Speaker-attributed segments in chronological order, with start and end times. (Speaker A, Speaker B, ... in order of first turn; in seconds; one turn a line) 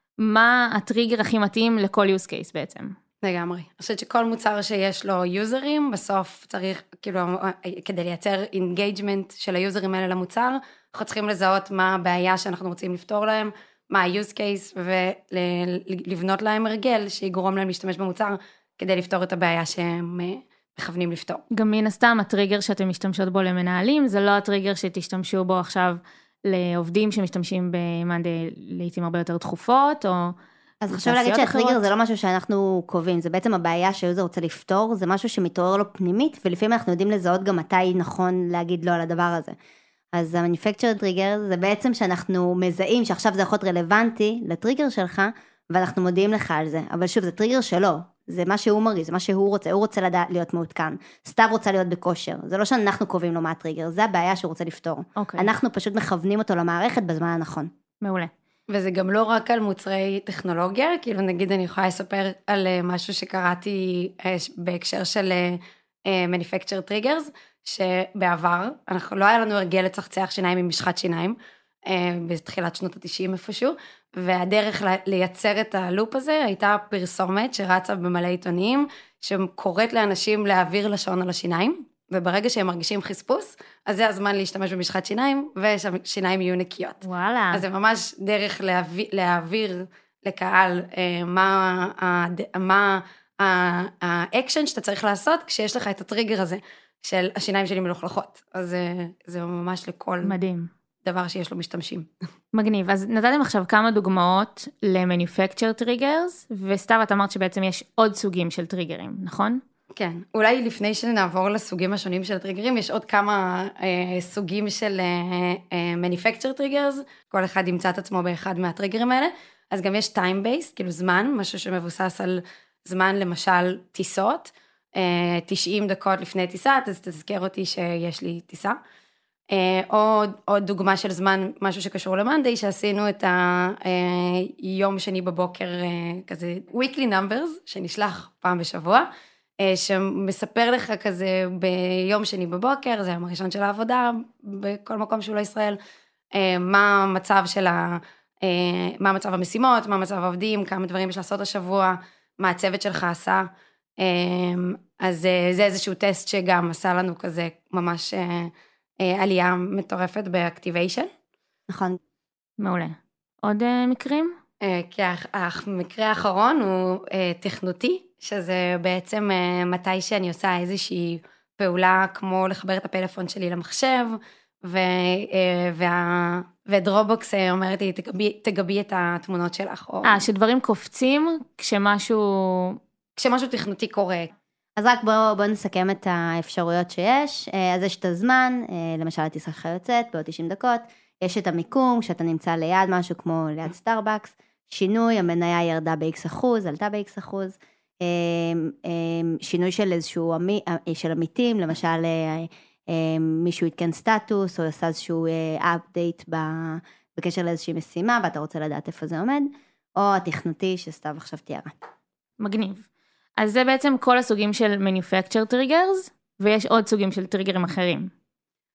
Speaker A: 0.2-3.0
Speaker B: 3.2-21.4
Speaker A: 21.5-30.4
Speaker C: 30.8-39.6
Speaker A: 30.9-31.9
Speaker C: 40.1-57.7
Speaker A: 55.2-55.5
Speaker A: 58.0-58.3
Speaker B: 58.7-100.3
Speaker A: 87.0-87.6
Speaker A: 100.2-100.7
Speaker B: 101.0-102.1
Speaker A: 102.5-109.6
Speaker B: 109.9-128.8
Speaker B: 129.5-139.1
Speaker B: 139.6-145.8
Speaker B: 146.3-153.5
Speaker B: 154.0-161.1
Speaker C: 161.7-162.0
Speaker A: 162.6-164.3
Speaker B: 164.6-180.2
Speaker A: 180.1-182.8
Speaker B: 183.2-184.3
Speaker C: 184.8-211.7
Speaker A: 212.4-212.9
Speaker A: 213.4-218.1